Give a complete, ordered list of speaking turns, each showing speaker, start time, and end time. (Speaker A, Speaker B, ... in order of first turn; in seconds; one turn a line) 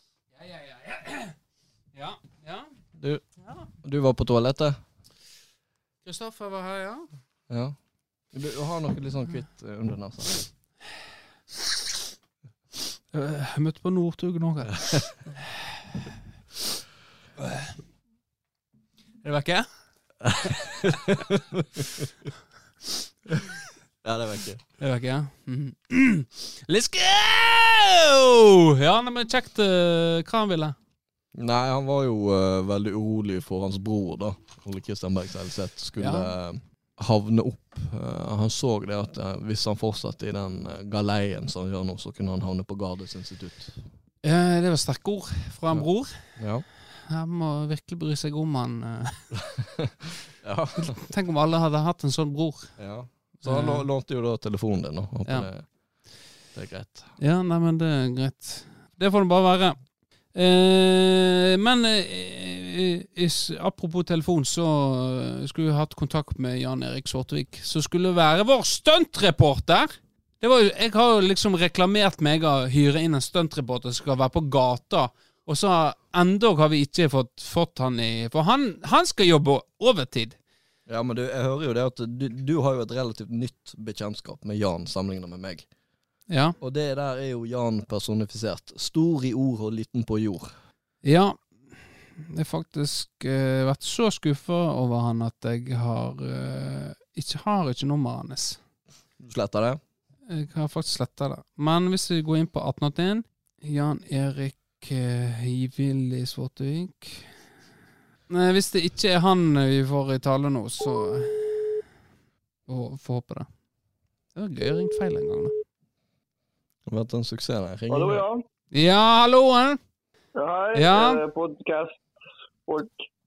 Speaker A: 0.4-1.4
Speaker A: 1.9-2.7
Speaker B: 3.0-3.2
Speaker B: 3.8-4.8
Speaker A: 6.0-7.0
Speaker B: 7.5-7.8
Speaker B: 8.3-10.5
Speaker A: 13.1-15.6
Speaker A: 17.4-17.7
Speaker A: 19.2-19.7
Speaker B: 20.2-22.1
Speaker B: 24.0-24.6
Speaker A: 24.8-30.7
Speaker B: 31.3-43.8
Speaker A: 36.0-36.3
Speaker A: 44.2-46.1
Speaker B: 45.7-46.6
Speaker A: 47.1-49.2
Speaker B: 49.5-51.0
Speaker A: 51.0-52.7
Speaker B: 52.8-55.7
Speaker A: 53.4-53.9
Speaker B: 56.5-57.1
Speaker A: 57.2-59.8
Speaker A: 60.3-80.4
Speaker B: 80.9-85.7
Speaker A: 86.3-86.5
Speaker B: 86.6-90.5
Speaker A: 91.0-91.4
Speaker A: 92.2-98.6
Speaker B: 99.2-99.8
Speaker A: 100.3-107.3
Speaker A: 108.3-111.8
Speaker A: 112.7-113.5
Speaker A: 114.3-115.5
Speaker B: 116.9-118.2
Speaker C: 117.9-118.4
Speaker A: 118.7-119.8
Speaker C: 120.3-122.1
Speaker A: 120.7-121.2
Speaker C: 122.7-123.1